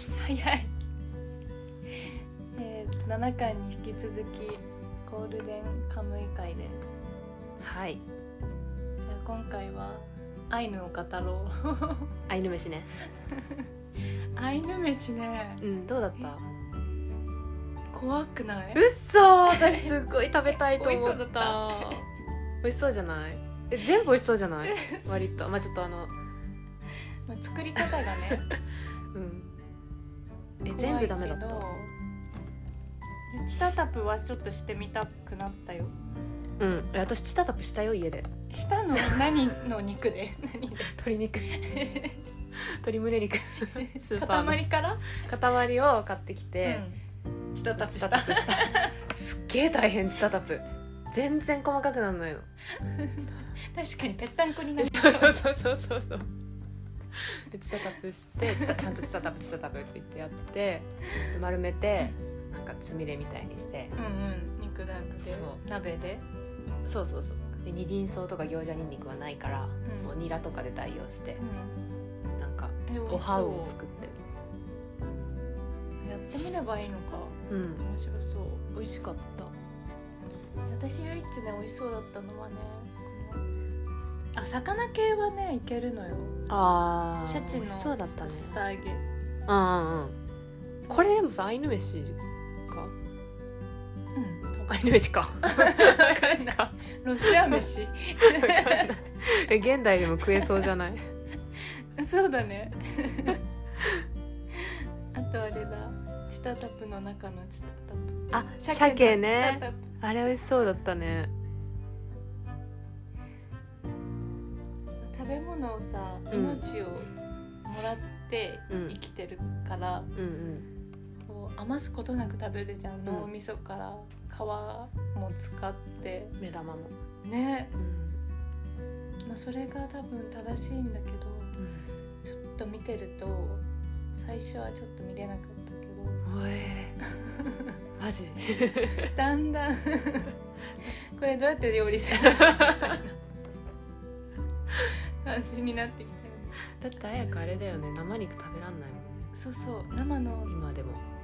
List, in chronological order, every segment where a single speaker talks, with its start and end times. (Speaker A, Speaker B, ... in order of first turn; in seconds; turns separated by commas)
Speaker A: 0.1-0.7, Speaker A: 2.0-6.9, Speaker B: 7.6-8.0, Speaker A: 9.1-12.1, Speaker B: 12.3-12.9, Speaker A: 13.2-13.7, Speaker A: 14.4-15.6, Speaker B: 15.6-16.5, Speaker A: 17.9-18.8, Speaker B: 18.7-22.0, Speaker A: 19.5-19.9, Speaker A: 20.5-22.1, Speaker B: 22.6-26.1, Speaker A: 24.7-25.1, Speaker A: 27.3-28.5, Speaker B: 28.3-28.6, Speaker B: 29.1-29.6, Speaker B: 30.6-31.7, Speaker A: 30.7-31.9, Speaker A: 33.3-35.9, Speaker B: 36.6-38.3, Speaker A: 38.5-40.9, Speaker B: 40.9-41.5, Speaker A: 41.5-42.2, Speaker B: 42.5-46.9, Speaker A: 43.6-45.3, Speaker A: 46.6-47.0, Speaker A: 47.5-49.0, Speaker B: 47.8-52.5, Speaker A: 52.8-55.4, Speaker B: 54.8-56.3, Speaker B: 57.1-63.9, Speaker A: 58.5-59.0, Speaker A: 64.0-66.2, Speaker B: 65.1-65.6, Speaker B: 66.8-71.4, Speaker A: 69.8-70.1, Speaker A: 71.4-71.8, Speaker B: 72.4-74.2, Speaker A: 72.9-73.8, Speaker A: 76.0-78.7, Speaker B: 77.5-77.8, Speaker B: 78.7-79.5, Speaker A: 80.7-83.4, Speaker A: 84.3-86.4, Speaker B: 86.5-88.6, Speaker A: 87.2-89.0, Speaker B: 89.5-90.2, Speaker B: 90.9-92.9, Speaker A: 94.1-94.8, Speaker B: 94.7-97.7, Speaker A: 95.4-99.0, Speaker B: 98.2-101.0, Speaker A: 100.3-100.7, Speaker A: 101.6-103.4, Speaker A: 104.5-109.9, Speaker B: 108.3-111.3, Speaker A: 115.0-117.1, Speaker B: 116.3-116.6, Speaker A: 117.6-120.1, Speaker B: 118.7-118.9, Speaker B: 120.1-120.7, Speaker A: 121.2-126.3, Speaker B: 126.4-126.9, Speaker A: 127.2-127.7, Speaker B: 127.8-128.2, Speaker A: 129.2-131.6, Speaker B: 131.6-131.9, Speaker A: 132.2-136.2, Speaker B: 136.2-137.0, Speaker A: 137.1-137.8, Speaker B: 138.0-139.1, Speaker A: 139.1-143.2, Speaker B: 142.4-142.7, Speaker A: 145.2-146.6, Speaker B: 146.8-149.3, Speaker A: 149.3-150.5, Speaker B: 150.5-151.0